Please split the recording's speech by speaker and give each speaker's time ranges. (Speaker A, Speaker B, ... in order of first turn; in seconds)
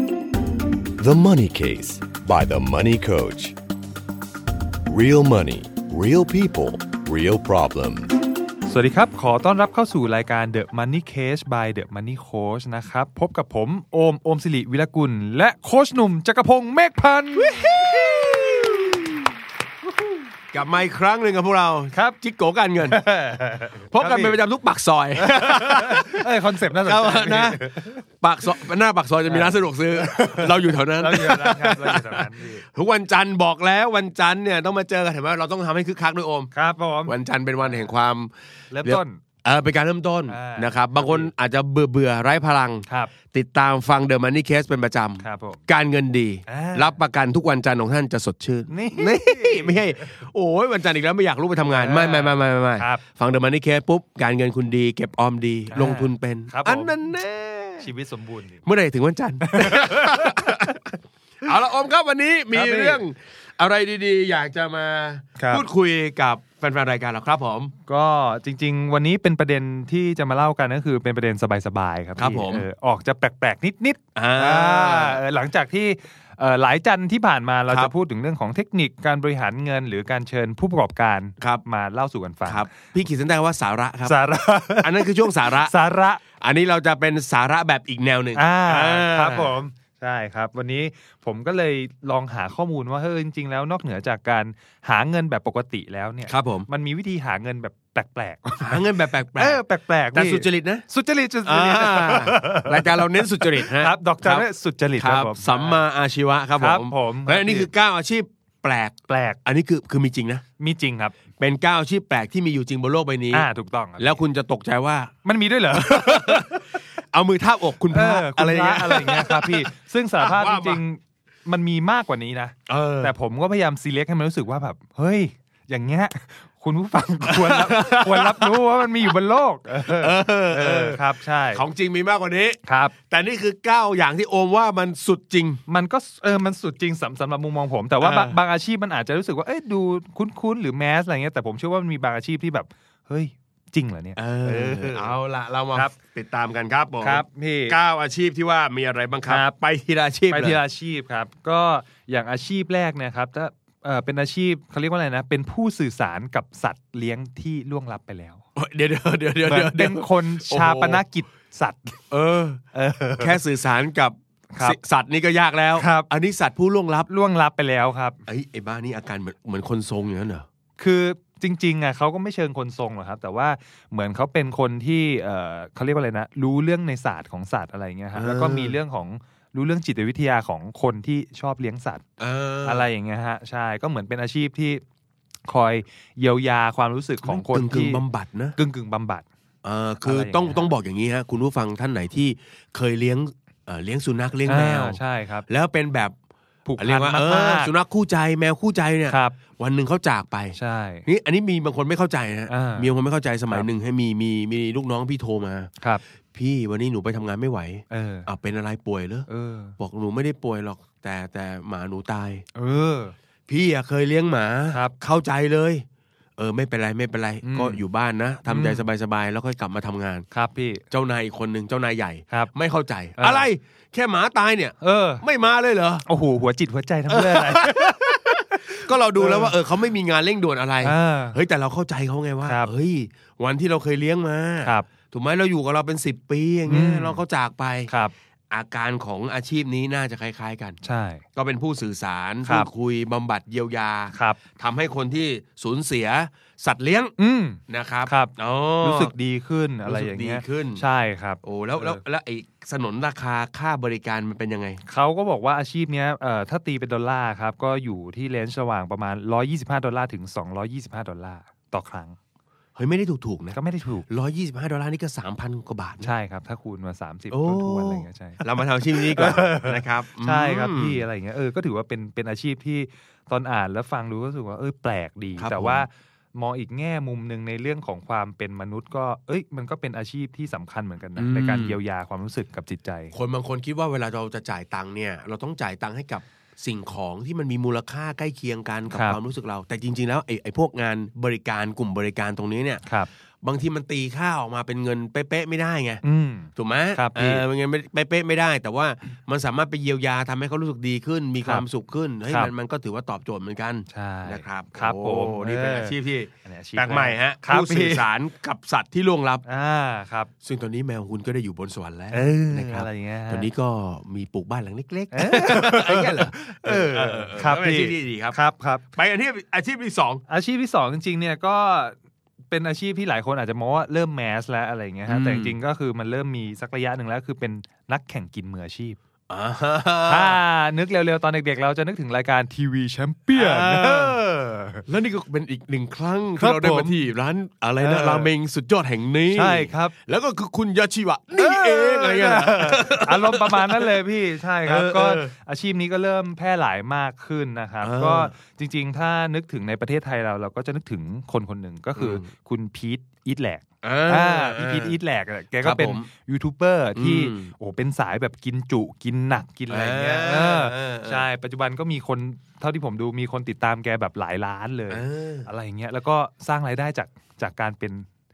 Speaker A: 1.0-3.5, 4.9-8.2
Speaker B: 8.7-18.8, 22.8-24.4, 25.2-28.0, 29.3-32.6, 36.5-37.8, 38.7-39.2, 40.3-41.3, 42.9-43.1, 45.2-45.6, 46.5-47.0, 48.7-50.1, 51.8-53.0, 55.7-57.0, 57.8-58.6, 59.4-60.8, 62.5-63.0, 65.4-65.6, 67.8-82.7, 84.0-86.2, 88.3-105.8, 106.6-107.7, 109.1-109.4, 110.6-111.2, 113.3-114.2, 115.2-116.6, 117.9-131.6, 132.7-132.9, 135.7-145.1, 147.0-147.8, 149.3-149.5, 150.3-158.4, 159.4-162.0, 162.7-163.4, 164.5-164.8, 165.8-166.1, 167.1-168.2, 170.8-182.0, 182.6-184.8, 185.5-188.0, 188.6-189.2, 190.0-190.6, 194.5-195.5, 196.7-197.7, 199.1-199.3, 200.5-201.1, 202.5-202.9, 207.9-208.3, 209.3-209.8, 212.5-213.1, 217.4-217.8, 218.5-218.8, 220.3-220.8, 223.2-223.5, 224.8-225.2, 226.1-229.5, 230.8-231.4, 232.4-232.7, 236.7-237.2, 237.9-238.1, 240.8-241.2, 244.1-244.4, 247.2-252.0, 254.9-262.1, 263.5-264.1, 266.0-268.4, 269.0-283.1, 288.9-289.2, 296.0-297.4, 303.9-308.1, 309.4-310.3, 312.1-313.5, 315.1-318.8, 320.3-321.9, 322.5-329.0, 330.1-334.8, 336.4-337.0, 337.8-338.3, 339.3-339.9, 341.4-368.1
Speaker C: 17.4-19.1, 20.5-23.0, 23.9-36.5, 37.1-38.3, 38.8-57.9, 58.6-67.7, 72.2-72.7, 74.1-75.2, 82.5-84.2, 84.8-85.7, 86.4-89.5, 96.3-96.7, 98.6-99.6, 100.1-100.8, 101.4-104.5, 105.0-110.4, 111.4-113.5, 114.0-115.1, 115.7-120.8, 122.7-123.1, 127.2-129.1, 129.8-135.6, 138.0-138.4, 144.2-150.6, 158.6-161.0, 162.1-162.6, 163.2-167.1, 168.3-170.4, 178.2-178.8, 182.2-182.8, 187.2-188.6, 189.6-196.1, 196.8-205.7, 206.3-209.3, 209.8-212.4, 213.5-215.8, 216.4-220.2, 220.9-226.0, 227.1-237.9, 238.5-240.8, 241.3-247.1, 247.7-249.1, 249.8-250.8, 251.4-254.8, 262.8-266.1, 267.3-271.0, 275.4-275.9, 281.1-281.8, 283.1-292.8, 293.4-296.0, 296.6-309.4, 310.4-318.4, 318.9-320.2, 325.1-325.5, 329.3-330.4, 333.3-334.2, 334.9-344.0, 344.6-345.3, 347.8-348.3, 351.9-352.2, 353.8-355.0, 355.6-356.1, 356.9-357.5, 359.7-361.2, 364.9-365.5